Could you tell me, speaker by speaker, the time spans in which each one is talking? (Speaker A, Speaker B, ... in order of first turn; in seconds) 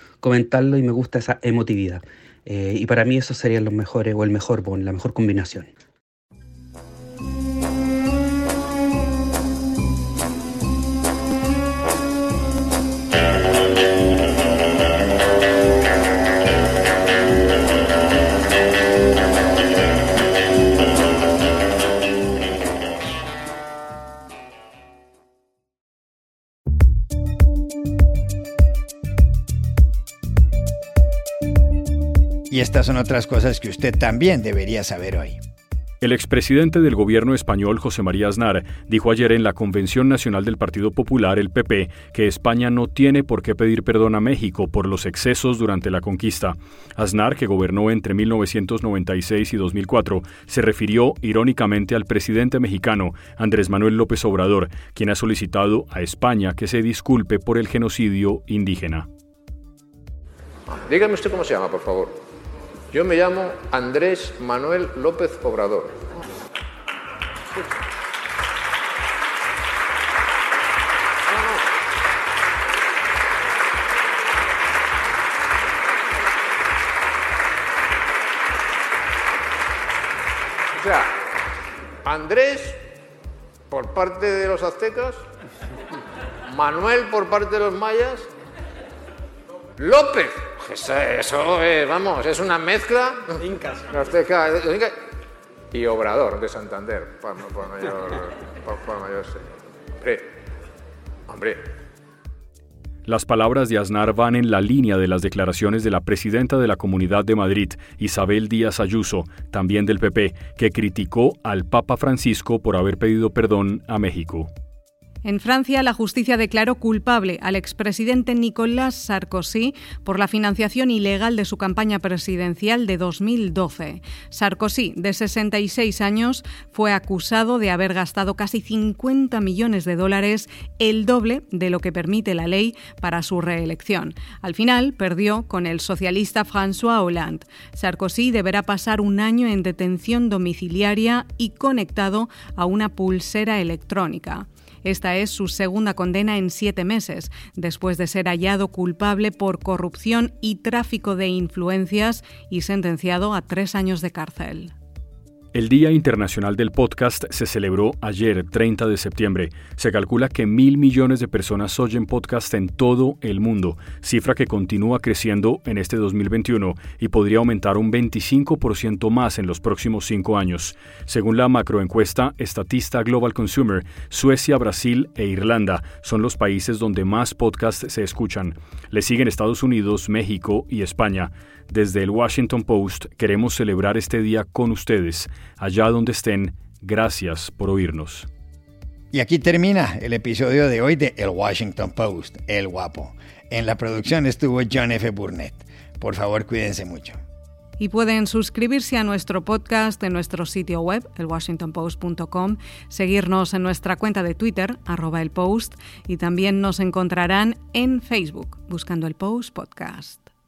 Speaker A: 0.2-5.7
Speaker B: 32.5-35.4, 189.1-197.2
Speaker C: 36.0-59.1, 103.0-114.5, 155.5-188.3
Speaker D: 60.7-62.2, 62.9-66.0, 71.3-71.6, 80.8-81.1, 82.0-82.8, 83.7-85.2, 86.5-88.3, 89.8-95.0, 95.7-99.4, 100.0-100.3, 101.3-101.6
Speaker E: 115.2-154.7, 197.8-210.3